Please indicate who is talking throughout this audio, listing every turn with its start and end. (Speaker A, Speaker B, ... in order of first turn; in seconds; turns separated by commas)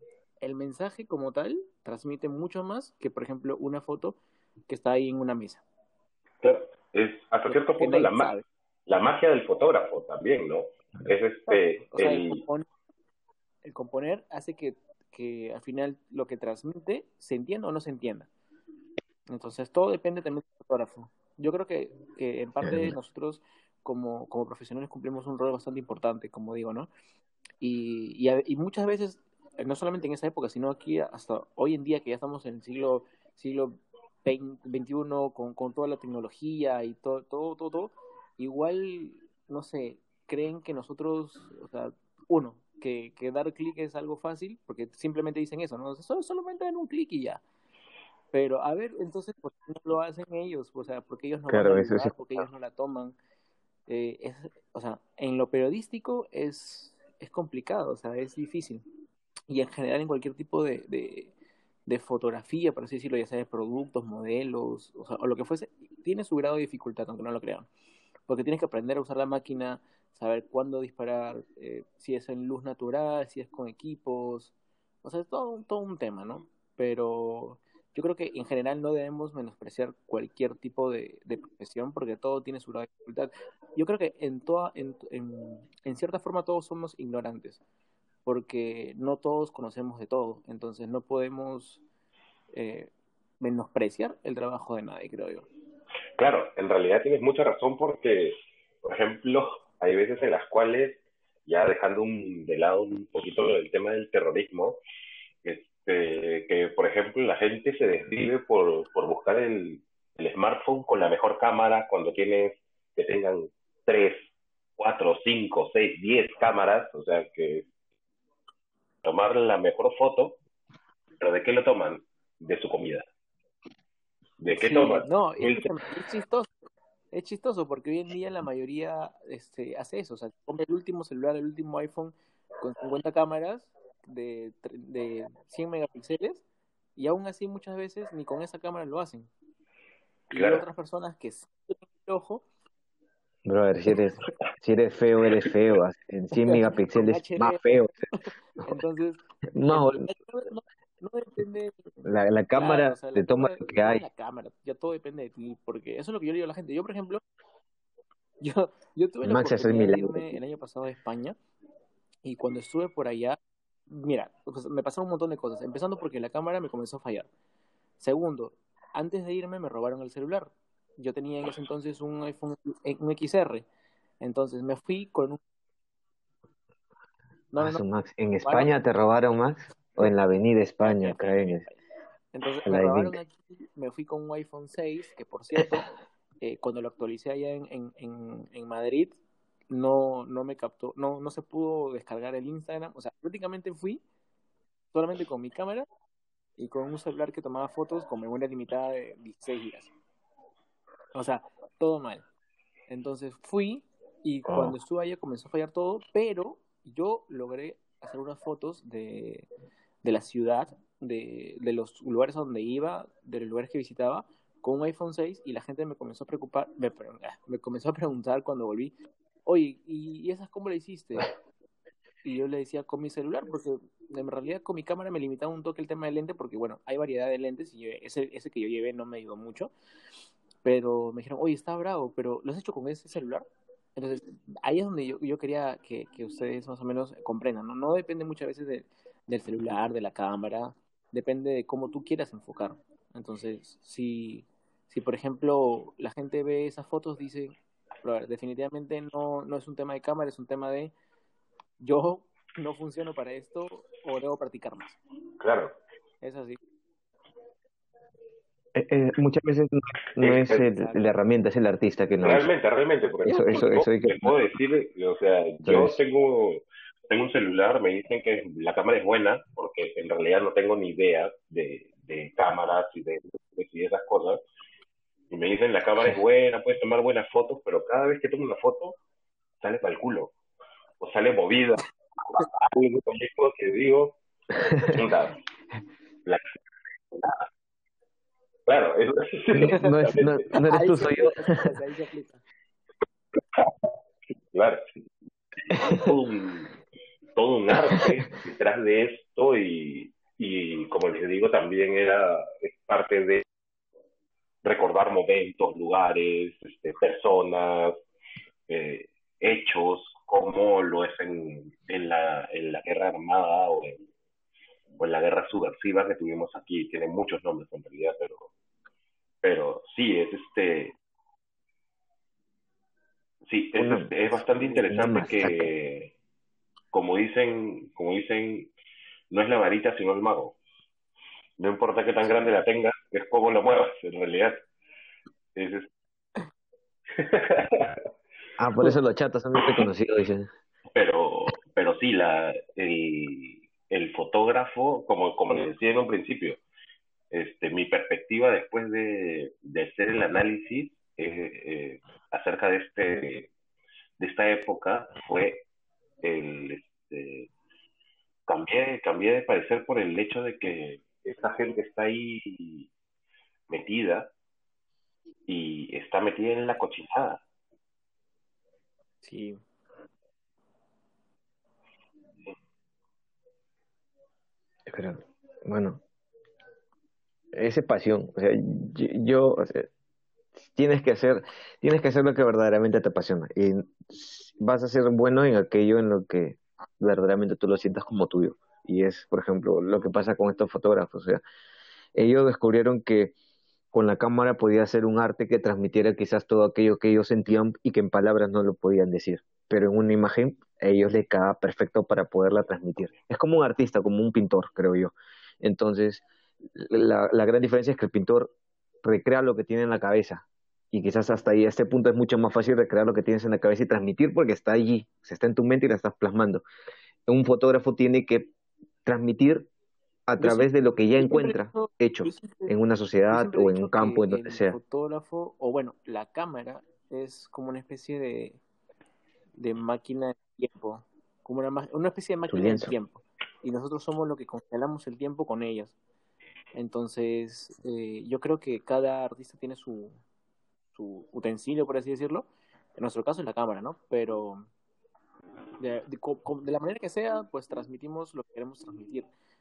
Speaker A: 0.4-5.6, Speaker B: 6.4-8.3, Speaker A: 7.4-8.4, Speaker B: 8.8-12.4, Speaker A: 11.5-12.7, Speaker A: 13.6-18.3, Speaker A: 19.3-26.9, Speaker C: 22.6-22.9, Speaker A: 27.6-47.4, Speaker A: 48.3-53.2, Speaker C: 51.5-52.2, Speaker A: 53.9-58.8, Speaker A: 59.5-61.3, Speaker A: 61.9-67.7, Speaker A: 68.3-87.6, Speaker A: 88.2-91.8, Speaker A: 92.5-95.5, Speaker B: 96.2-104.8, Speaker B: 105.4-117.7, Speaker B: 119.0-120.4, Speaker B: 121.2-123.1, Speaker B: 124.4-125.7, Speaker A: 124.5-126.5, Speaker A: 127.1-136.4, Speaker A: 136.9-139.3, Speaker A: 140.3-142.4, Speaker B: 140.3-140.6, Speaker C: 143.4-147.9, Speaker A: 146.3-157.2, Speaker C: 149.5-150.1, Speaker C: 152.0-154.0, Speaker A: 158.4-161.3, Speaker C: 159.2-160.4, Speaker A: 162.2-163.4, Speaker A: 163.9-167.3, Speaker A: 168.0-173.7, Speaker A: 174.2-175.4, Speaker A: 177.5-177.8, Speaker C: 177.6-181.7, Speaker A: 178.4-178.7, Speaker A: 180.8-181.8, Speaker A: 182.3-189.2, Speaker C: 182.7-183.2, Speaker A: 189.7-194.0, Speaker A: 194.9-195.9, Speaker A: 196.6-199.9, Speaker A: 201.1-202.2, Speaker A: 202.9-209.5, Speaker C: 204.5-204.8, Speaker A: 210.0-218.9, Speaker A: 219.4-221.3, Speaker A: 222.2-229.7, Speaker A: 230.6-250.9, Speaker A: 251.8-255.0, Speaker B: 255.4-255.8, Speaker A: 256.2-256.6, Speaker C: 258.7-262.5, Speaker B: 260.2-260.7, Speaker A: 260.6-261.0, Speaker B: 262.2-274.4, Speaker C: 263.2-264.3, Speaker A: 263.3-263.7, Speaker C: 265.6-266.0, Speaker B: 275.3-279.0, Speaker B: 279.6-280.3, Speaker B: 281.0-284.2, Speaker C: 284.5-285.0, Speaker B: 284.8-285.4, Speaker B: 288.7-290.5, Speaker C: 289.5-291.6, Speaker A: 289.6-289.8, Speaker A: 290.7-292.4, Speaker B: 293.5-293.8, Speaker B: 294.5-294.8, Speaker B: 295.6-296.7, Speaker C: 295.8-296.1, Speaker B: 297.3-303.4, Speaker C: 297.8-298.2, Speaker B: 304.6-308.0, Speaker B: 308.7-314.0, Speaker B: 314.9-318.5, Speaker B: 319.4-320.9, Speaker B: 323.5-326.1, Speaker C: 323.8-325.7, Speaker B: 326.9-328.7, Speaker B: 329.3-330.6, Speaker B: 331.6-334.6, Speaker B: 335.6-335.9, Speaker B: 337.1-338.0, Speaker C: 338.6-340.5, Speaker B: 340.9-346.6, Speaker B: 347.3-353.5, Speaker B: 354.2-355.6, Speaker B: 356.2-357.5, Speaker B: 358.5-362.9, Speaker B: 363.7-364.3, Speaker B: 365.5-367.4, Speaker A: 369.2-369.6, Speaker C: 374.9-376.0, Speaker C: 377.5-379.9, Speaker C: 380.6-391.4, Speaker C: 392.1-393.3, Speaker C: 393.9-416.6, Speaker C: 417.3-418.5, Speaker C: 419.0-419.7, Speaker C: 420.3-424.8, Speaker A: 420.4-422.7, Speaker A: 423.3-428.6, Speaker A: 429.6-435.9, Speaker C: 432.5-432.9, Speaker A: 436.7-440.2, Speaker A: 440.9-444.7, Speaker A: 445.8-449.3